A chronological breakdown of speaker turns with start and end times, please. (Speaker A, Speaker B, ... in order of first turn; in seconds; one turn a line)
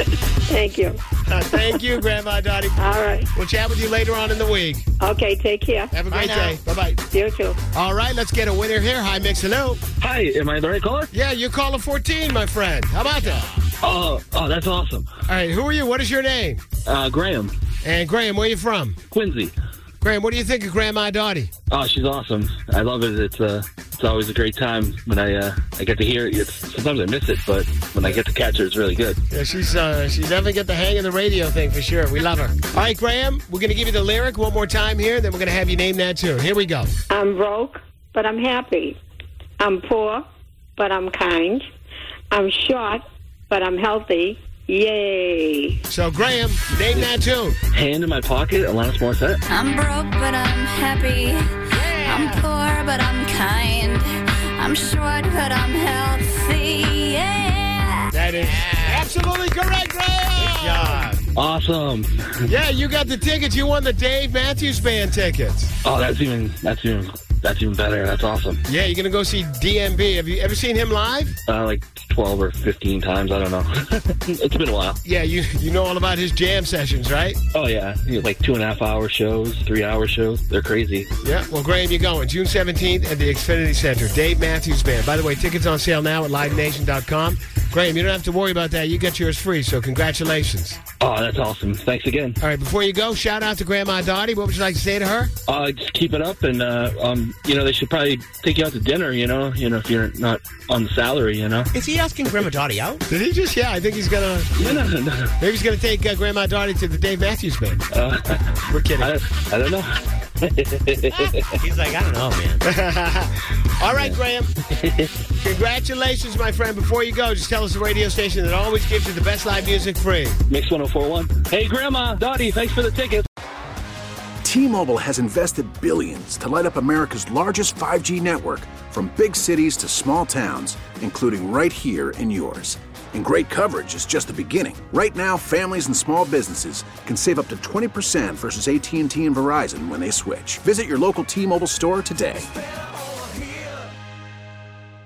Speaker A: 0.5-1.0
Speaker B: 1.3-4.9
Speaker A: 2.8-3.3
Speaker A: 5.0-5.9
Speaker B: 5.9-7.0
Speaker C: 6.1-6.6
Speaker A: 7.1-7.6
Speaker B: 7.7-9.8
Speaker D: 10.0-11.1
Speaker B: 11.1-13.5
Speaker D: 13.8-15.1
Speaker B: 15.3-16.6
Speaker D: 16.9-17.5
Speaker B: 17.8-19.0
Speaker D: 19.1-19.5
Speaker B: 20.0-21.5
Speaker D: 21.7-29.2
Speaker B: 29.3-36.9
Speaker A: 37.1-39.0
Speaker A: 39.6-40.2
Speaker A: 40.8-41.6
Speaker A: 42.3-45.8
Speaker B: 45.9-47.6
Speaker D: 47.7-49.4
Speaker E: 49.5-58.1
Speaker C: 51.9-52.4
Speaker B: 58.1-61.1
Speaker C: 58.6-59.0
Speaker C: 60.4-61.2
Speaker D: 61.4-62.3
Speaker B: 62.5-65.7
Speaker D: 65.8-68.6
Speaker B: 68.7-71.3
Speaker D: 71.5-75.0
Speaker B: 75.0-77.4
Speaker D: 77.5-81.1
Speaker B: 81.2-90.8
Speaker D: 91.0-92.4
Speaker B: 92.4-95.3
Speaker D: 95.5-101.7
Speaker C: 101.7-103.0
Speaker B: 103.1-104.8
Speaker D: 104.6-105.3
Speaker B: 105.4-107.8
Speaker D: 107.9-109.9
Speaker B: 108.7-109.1
Speaker D: 110.4-111.5
Speaker C: 111.6-112.6
Speaker B: 112.6-114.5
Speaker D: 114.8-115.1
Speaker B: 115.4-120.4
Speaker D: 120.5-123.2
Speaker F: 124.4-142.5